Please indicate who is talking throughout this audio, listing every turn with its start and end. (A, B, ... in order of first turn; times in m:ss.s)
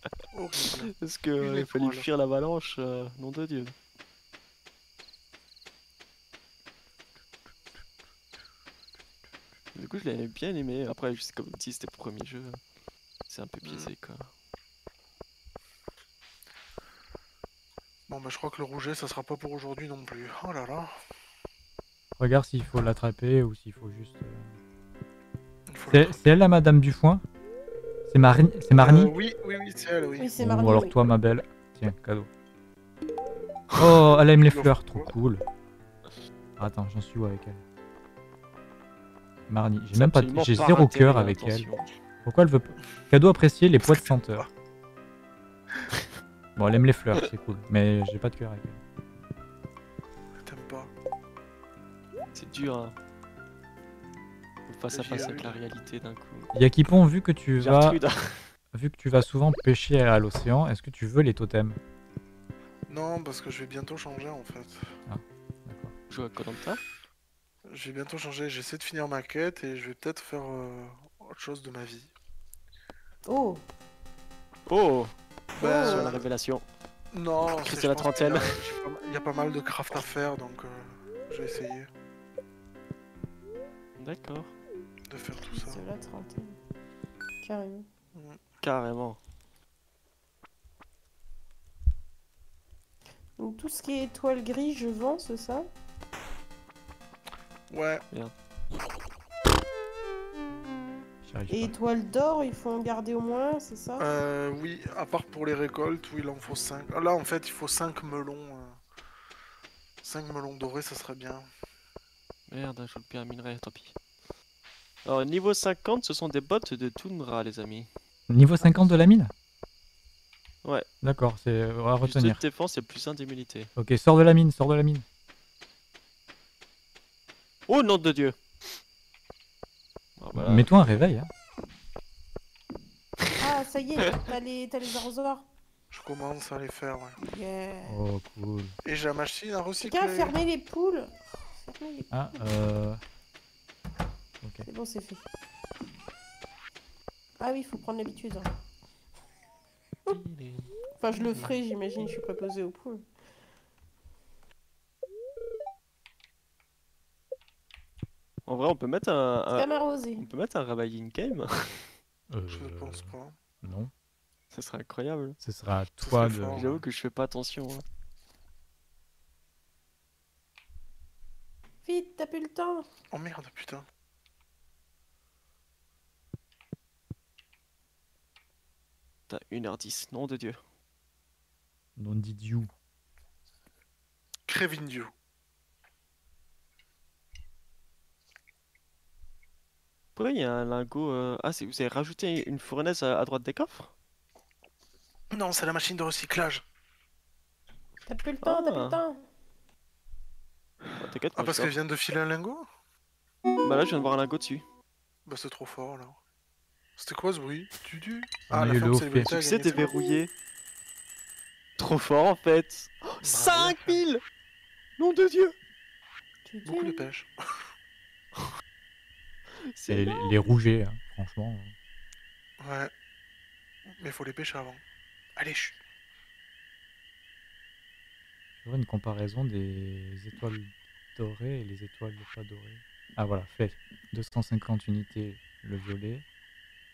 0:00.3-0:02.1 A
0:01.0-0:03.8 B
0:09.8-0:12.6 B
0:13.3-0:14.3 B
0:13.6-0:13.9 A
0:18.1-0:20.9 A
0:22.2-0:24.5 C
0:25.7-0:26.2 A
0:25.9-0:27.2 C
0:28.1-0:29.1 C
0:28.8-0:30.4 A
0:30.2-0:31.0 D
0:30.4-0:32.3 C
0:33.8-0:35.4 C
0:34.3-0:35.1 A
0:36.6-0:37.6 C
0:39.5-0:41.7 C
0:39.9-0:41.9 B
0:42.2-0:44.5 C
0:43.8-0:44.5 A
0:46.6-0:48.8 C
0:50.4-0:50.9 A
0:52.4-0:53.0 B
0:54.7-0:56.5 B
0:54.9-0:55.6 A
0:56.5-0:58.0 C
0:57.6-0:58.4 B
0:58.7-1:01.8 C
1:02.9-1:04.9 A
1:05.1-1:05.9 C
1:06.1-1:06.8 B
1:07.7-1:12.1 A
1:13.3-1:13.6 D
1:14.7-1:15.1 B
1:15.6-1:16.2 D
1:15.6-1:16.3 A
1:15.8-1:16.7 B
1:17.1-1:21.9 A
1:17.5-1:18.6 B
1:24.0-1:24.5 B
1:25.1-1:25.8 A
1:25.4-1:26.6 D
1:27.4-1:27.9 D
1:28.1-1:28.4 A
1:28.6-1:29.2 B
1:33.4-1:35.7 D
1:37.7-1:38.0 A
1:41.2-1:41.8 C
1:41.5-1:44.1 D
1:44.0-1:48.8 A
1:50.0-1:51.5 A
1:52.5-1:54.0 B
1:55.0-1:57.9 B
1:58.3-1:59.3 C
1:58.6-1:58.9 B
2:01.0-2:02.4 C
2:02.0-2:03.7 B
2:03.8-2:05.0 C
2:07.7-2:08.4 B
2:10.2-2:11.0 B
2:10.3-2:11.3 C
2:13.4-2:15.4 D
2:15.9-2:17.2 A
2:17.2-2:18.0 D
2:17.8-2:18.8 C
2:18.8-2:20.4 A
2:19.8-2:22.4 D
2:22.1-2:23.0 C
2:24.4-2:24.7 C
2:24.6-2:25.2 D
2:27.4-2:28.5 D
2:30.1-2:31.6 B
2:31.0-2:33.0 D
2:38.5-2:41.9 B
2:39.5-2:40.3 D
2:42.3-2:43.9 C
2:42.5-2:43.4 A
2:44.5-2:45.4 B
2:45.4-2:46.8 C
2:46.0-2:46.8 A
2:46.5-2:47.8 B
2:51.8-2:52.9 D
2:53.1-2:53.9 A
2:59.3-3:00.6 B
3:02.0-3:02.7 C
3:04.5-3:05.1 A
3:10.2-3:13.9 B
3:15.3-3:16.6 A
3:18.1-3:19.2 D
3:18.4-3:19.0 B
3:21.0-3:21.8 B
3:21.4-3:22.7 A
3:23.6-3:24.6 B
3:25.3-3:26.2 A
3:27.0-3:30.0 A
3:28.5-3:29.3 C
3:29.2-3:30.3 B
3:31.8-3:34.2 B
3:33.2-3:34.0 A
3:35.0-3:35.6 B
3:36.4-3:37.1 D
3:36.6-3:37.3 A
3:39.7-3:40.3 B
3:39.9-3:41.7 C
3:42.6-3:42.9 A
3:44.0-3:44.8 A
3:45.4-3:45.8 A
3:48.6-3:56.2 C